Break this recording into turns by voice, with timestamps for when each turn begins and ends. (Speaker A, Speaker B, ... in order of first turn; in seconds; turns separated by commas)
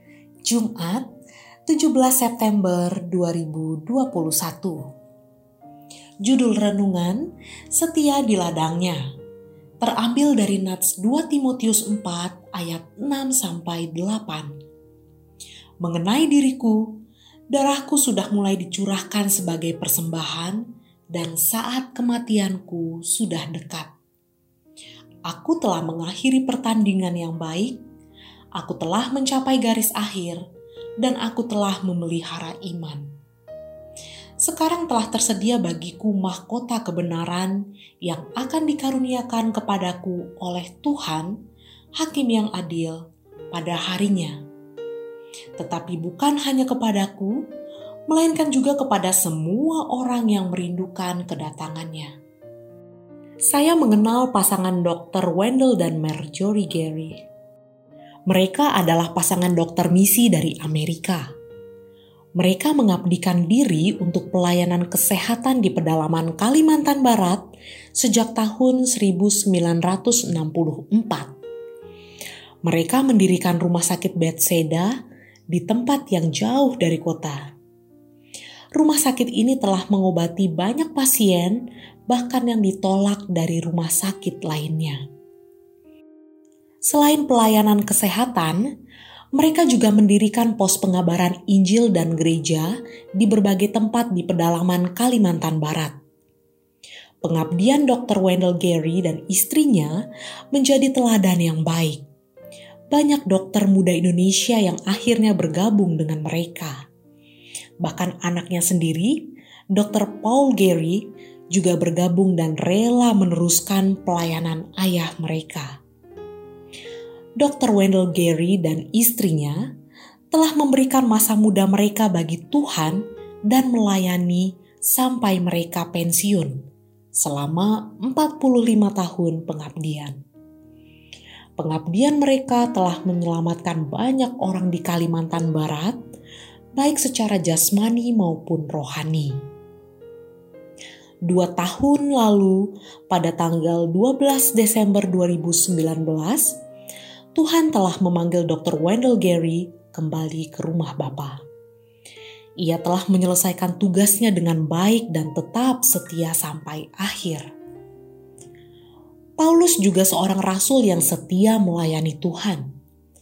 Speaker A: 0.4-1.1, Speaker A: 1.7-4.8, Speaker A: 6.2-9.0, Speaker A: 9.8-14.5, Speaker A: 15.8-16.9, Speaker A: 17.5-20.6, Speaker A: 21.1-23.9, Speaker A: 25.3-27.8, Speaker A: 28.6-30.4, Speaker A: 31.0-33.0, Speaker A: 34.4-41.3, Speaker A: 42.0-43.0, Speaker A: 43.5-44.4, Speaker A: 45.6-47.4, Speaker A: 48.1-52.1, Speaker A: 53.5-57.2, Speaker A: 58.3-61.3, Speaker A: 62.4-67.4, Speaker A: 68.0-71.3, Speaker A: 72.6-74.9, Speaker A: 75.5-77.5, Speaker A: 78.7-85.0, Speaker A: 86.8-88.6, Speaker A: 89.3-95.9, Speaker A: 97.2-100.0, Speaker A: 100.5-102.0, Speaker A: 102.9-106.8, Speaker A: 107.8-115.7, Speaker A: 117.4-119.6, Speaker A: 120.3-126.5, Speaker A: 127.2-130.2, Speaker A: 131.6-136.0, Speaker A: 136.8-139.3, Speaker A: 141.2-146.6, Speaker A: 147.3-151.4, Speaker A: 152.6-157.4, Speaker A: 159.4-162.6